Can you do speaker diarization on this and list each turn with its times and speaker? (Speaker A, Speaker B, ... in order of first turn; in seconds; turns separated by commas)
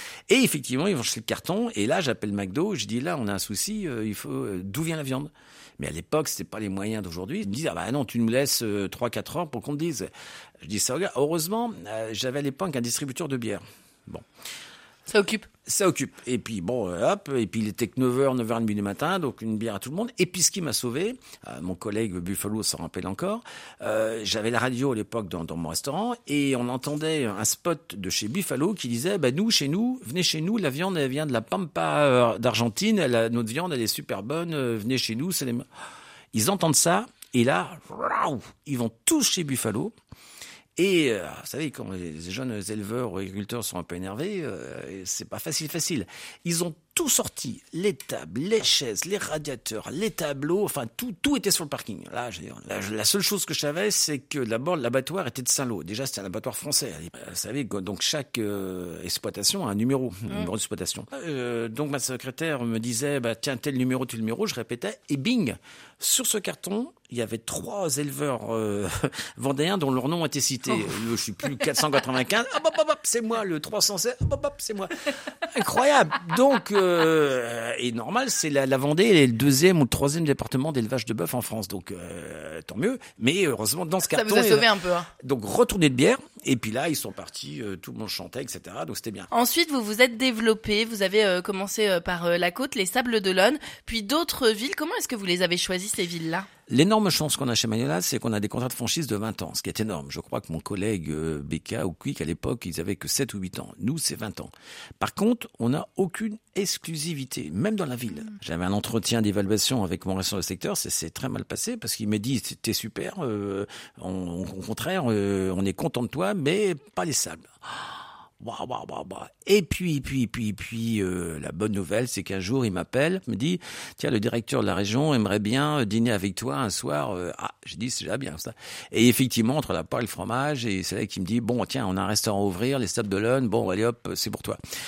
Speaker A: 0.3-10.1, Speaker A: 10.6-14.2, Speaker B: 15.1-15.5, Speaker A: 15.7-35.7, Speaker A: 36.3-39.9, Speaker A: 40.8-84.7, Speaker B: 84.1-85.1, Speaker A: 85.2-89.3, Speaker B: 89.3-96.5, Speaker A: 96.7-134.6